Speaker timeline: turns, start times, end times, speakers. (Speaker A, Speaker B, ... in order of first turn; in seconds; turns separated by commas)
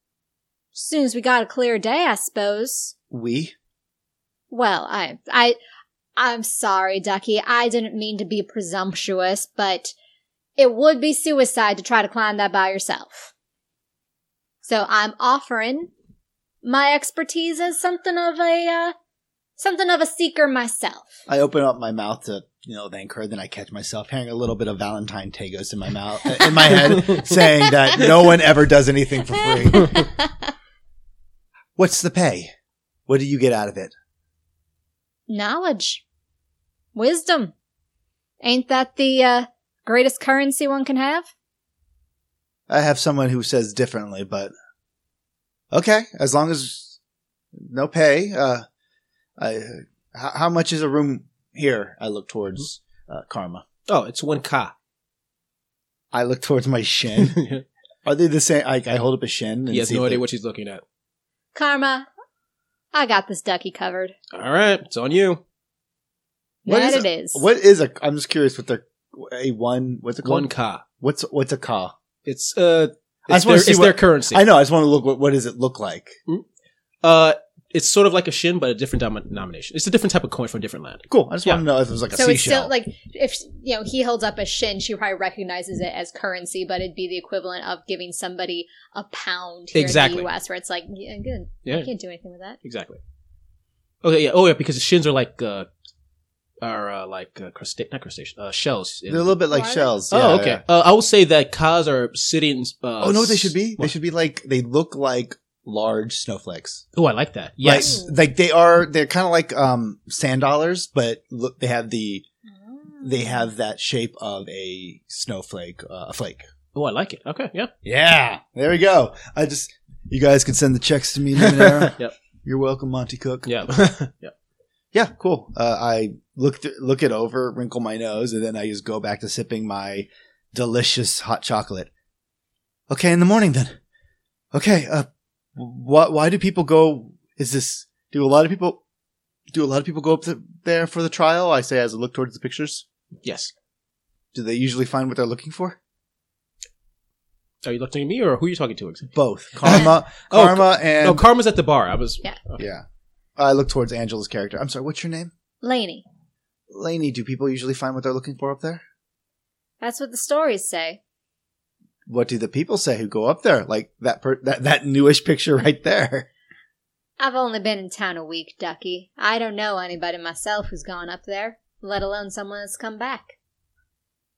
Speaker A: 0.7-2.9, Speaker B: 3.1-3.5, Speaker A: 4.5-5.6, Speaker A: 6.2-9.9, Speaker A: 10.6-13.3, Speaker A: 14.6-15.9, Speaker A: 16.6-18.9, Speaker A: 19.6-21.2, Speaker B: 21.3-30.1, Speaker A: 29.4-30.3, Speaker B: 31.8-32.5, Speaker B: 33.1-33.9, Speaker A: 35.3-36.0, Speaker A: 37.0-37.5, Speaker A: 38.4-41.3, Speaker B: 42.7-44.5, Speaker B: 45.7-47.0, Speaker B: 47.6-48.6, Speaker B: 49.4-53.6, Speaker C: 53.9-54.7, Speaker B: 56.1-57.4, Speaker C: 57.2-57.6, Speaker B: 58.0-60.2, Speaker C: 59.7-60.8, Speaker A: 61.5-62.1, Speaker A: 62.9-64.1, Speaker C: 64.3-65.4, Speaker A: 66.7-67.5, Speaker B: 66.7-70.5, Speaker C: 70.2-70.8, Speaker B: 71.0-71.9, Speaker C: 72.3-74.4, Speaker B: 73.3-76.2, Speaker C: 77.0-81.6, Speaker B: 81.1-82.7, Speaker A: 82.1-92.6, Speaker C: 89.7-90.3, Speaker C: 92.6-93.0, Speaker C: 94.0-95.7, Speaker C: 96.6-99.4, Speaker B: 99.1-100.6, Speaker A: 99.5-99.9, Speaker C: 100.1-103.9, Speaker B: 103.0-106.8, Speaker C: 107.0-108.0, Speaker B: 107.6-112.2, Speaker A: 107.7-108.2, Speaker A: 112.8-113.3, Speaker B: 113.0-116.5, Speaker C: 116.7-117.7, Speaker B: 117.8-123.5, Speaker C: 121.5-122.1, Speaker C: 123.5-124.3, Speaker B: 124.9-131.9, Speaker B: 132.9-133.8, Speaker B: 134.5-138.8, Speaker B: 139.5-142.8, Speaker C: 143.2-143.5, Speaker B: 144.3-145.8, Speaker C: 147.6-152.6, Speaker B: 149.2-151.2, Speaker B: 152.6-152.8, Speaker B: 153.4-155.3, Speaker A: 155.6-156.0, Speaker B: 156.7-158.8, Speaker A: 159.8-161.0, Speaker B: 162.1-166.3, Speaker A: 167.2-173.3